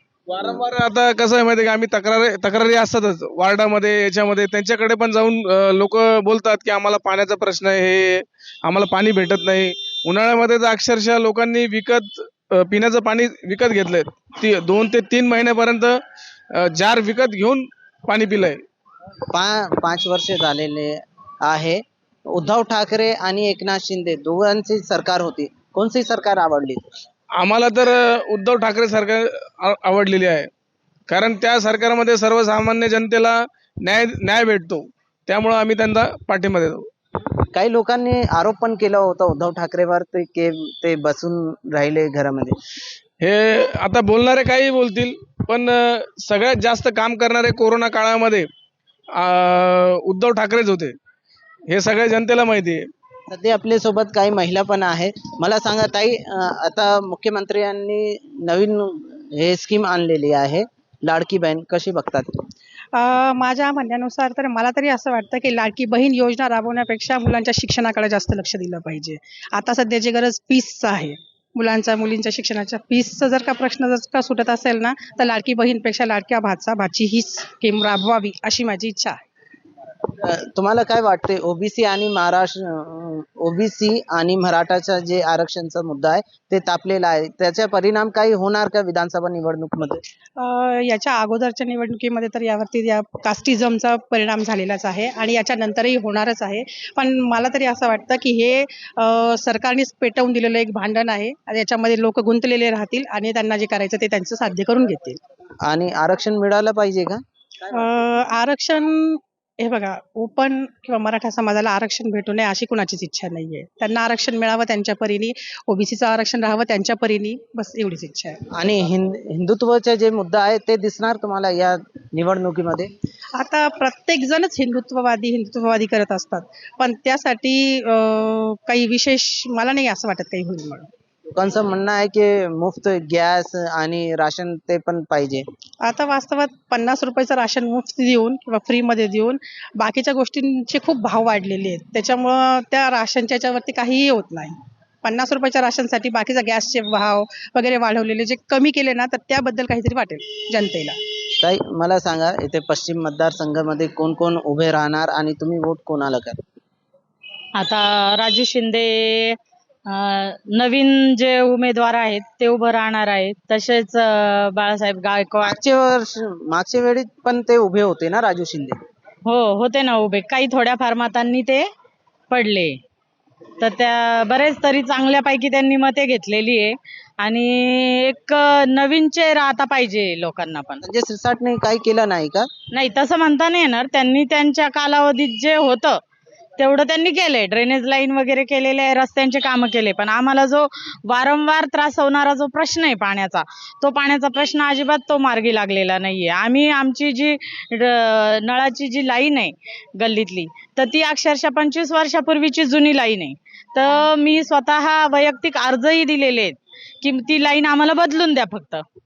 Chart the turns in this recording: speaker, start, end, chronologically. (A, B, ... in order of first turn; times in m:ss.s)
0:00.3-0:16.0 A
0:16.6-0:18.6 A
0:19.3-0:26.9 B
0:27.4-0:30.5 A
0:31.1-0:36.9 A
0:37.5-0:42.6 B
0:43.2-0:48.5 A
0:49.2-0:50.9 A
0:51.7-0:52.8 A
0:53.3-1:02.4 B
1:02.9-1:19.2 C
1:20.2-1:30.0 B
1:30.4-1:45.2 C
1:45.6-1:47.2 B
1:47.7-1:58.4 C
1:58.6-2:02.9 B
2:03.4-2:10.9 C
2:11.3-2:15.4 B
2:15.8-2:31.0 C
2:31.4-2:36.4 B
2:37.6-2:39.4 D
2:39.9-2:45.6 D
2:45.4-2:48.8 B
2:49.2-2:51.6 D
2:52.3-2:52.7 D
2:53.6-3:00.8 D
3:00.8-3:02.5 B
3:02.7-3:06.0 D
3:06.6-3:28.8 D